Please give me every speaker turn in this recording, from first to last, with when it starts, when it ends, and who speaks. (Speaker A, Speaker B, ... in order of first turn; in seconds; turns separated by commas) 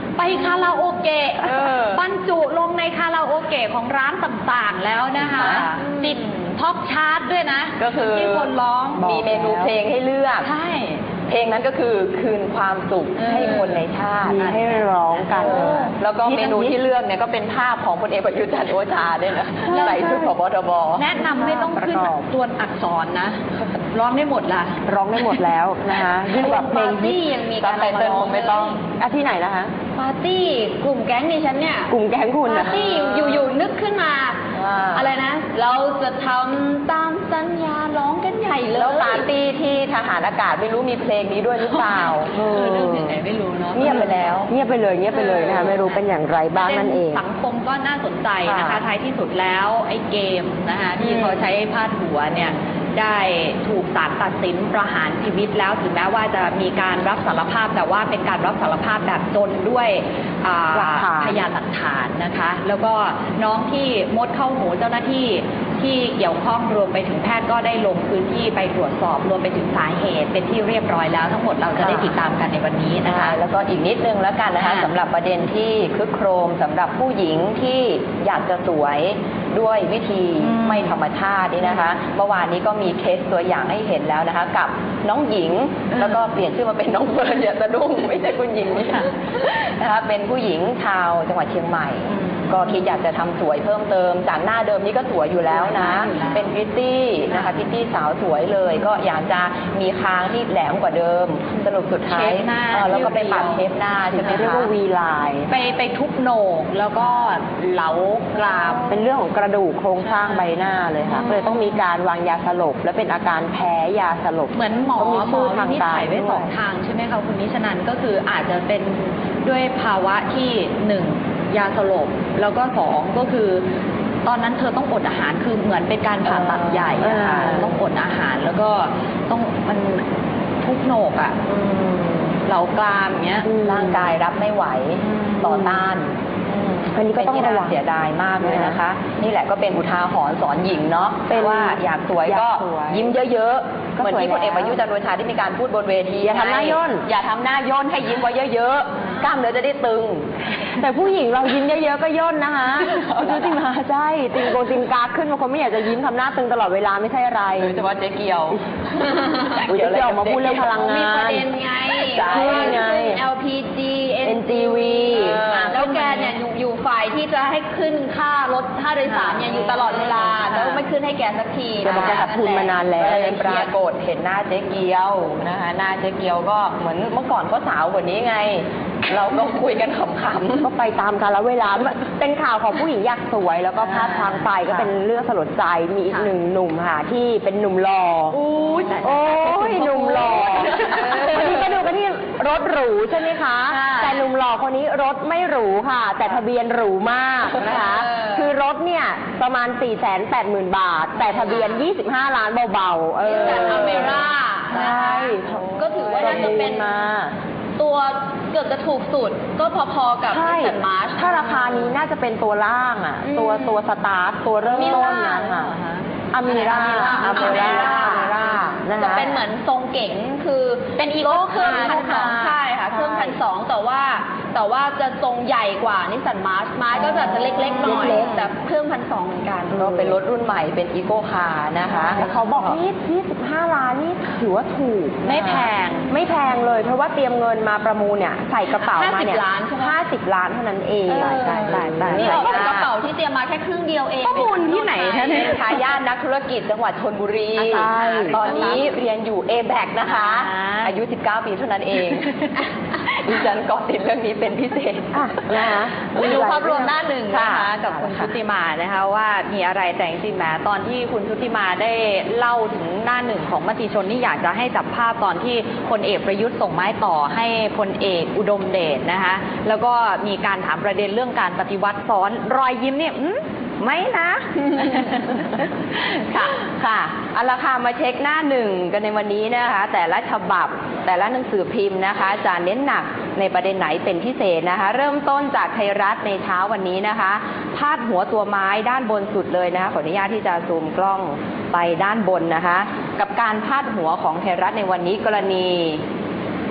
Speaker A: 0.2-9.1, Speaker B: 1.6-2.0, Speaker B: 5.3-5.7, Speaker B: 7.8-10.5, Speaker C: 8.9-9.7, Speaker A: 10.4-11.0, Speaker B: 11.3-14.4, Speaker A: 13.2-13.8, Speaker C: 14.2-16.7, Speaker A: 14.4-15.9, Speaker B: 15.5-21.1, Speaker A: 19.7-20.2, Speaker C: 19.7-20.2, Speaker A: 20.9-25.2, Speaker C: 21.2-22.2, Speaker C: 24.9-27.2, Speaker D: 26.3-28.8, Speaker B: 27.6-28.7, Speaker C: 28.7-29.7, Speaker D: 29.9-31.9, Speaker C: 31.9-33.0, Speaker D: 32.5-34.4, Speaker B: 34.5-35.0, Speaker D: 34.9-39.3, Speaker B: 38.8-43.0, Speaker A: 41.6-44.3, Speaker C: 42.4-43.0, Speaker B: 43.7-44.5, Speaker C: 44.5-47.2, Speaker A: 45.2-45.7, Speaker A: 46.5-73.4, Speaker B: 48.5-48.8, Speaker C: 60.7-61.4, Speaker B: 71.8-72.1, Speaker B: 73.1-104.7, Speaker A: 74.6-74.9, Speaker A: 80.4-81.0, Speaker A: 85.9-86.3, Speaker A: 92.1-92.8, Speaker A: 95.6-96.5, Speaker A: 97.3-97.7, Speaker A: 102.0-104.6, Speaker C: 104.2-105.5, Speaker A: 105.5-109.0, Speaker C: 108.8-116.5, Speaker A: 110.0-110.5, Speaker A: 111.1-111.7, Speaker A: 114.5-123.6, Speaker A: 124.2-130.0, Speaker B: 126.2-127.6, Speaker C: 127.0-127.6, Speaker A: 130.6-131.6, Speaker B: 131.6-132.1, Speaker A: 132.4-133.6, Speaker C: 133.4-134.1, Speaker B: 133.5-150.4, Speaker A: 135.1-135.7, Speaker C: 136.9-137.8, Speaker C: 138.4-138.8, Speaker C: 141.3-143.1, Speaker C: 144.0-144.8, Speaker C: 146.2-147.0, Speaker C: 150.8-157.8, Speaker B: 152.8-153.6, Speaker B: 157.6-158.6, Speaker B: 159.5-160.8, Speaker C: 159.7-161.5, Speaker D: 160.7-172.4, Speaker B: 161.8-162.9, Speaker C: 162.2-163.2, Speaker C: 164.2-165.5, Speaker B: 165.1-165.8, Speaker A: 165.7-166.3, Speaker A: 169.0-170.8, Speaker B: 169.7-170.4, Speaker C: 171.8-173.7, Speaker B: 171.8-180.7, Speaker C: 180.6-188.4, Speaker A: 183.9-184.4, Speaker A: 188.3-191.2, Speaker C: 189.0-207.3, Speaker A: 193.8-194.2, Speaker D: 203.2-206.9, Speaker D: 207.8-211.4, Speaker C: 210.3-215.7, Speaker D: 213.4-213.8, Speaker A: 214.7-216.0, Speaker D: 214.8-215.3, Speaker C: 216.3-219.3, Speaker D: 216.5-230.1, Speaker A: 216.9-218.2, Speaker B: 217.4-218.3, Speaker A: 221.0-222.5, Speaker C: 222.9-223.3, Speaker A: 227.0-228.5, Speaker C: 227.8-228.1, Speaker B: 229.7-232.4, Speaker C: 232.0-242.7, Speaker A: 232.2-232.7, Speaker A: 235.2-236.1, Speaker D: 238.8-240.0, Speaker A: 241.1-242.9, Speaker D: 241.1-245.6, Speaker B: 241.3-242.8, Speaker A: 244.2-245.8, Speaker B: 245.2-252.3, Speaker C: 247.6-248.7, Speaker A: 247.6-248.8, Speaker A: 250.0-250.9, Speaker A: 252.1-252.5, Speaker B: 253.1-255.2, Speaker C: 255.1-256.9, Speaker A: 256.1-273.4, Speaker B: 256.1-258.3, Speaker B: 273.8-275.2, Speaker A: 274.8-275.3, Speaker B: 275.9-296.0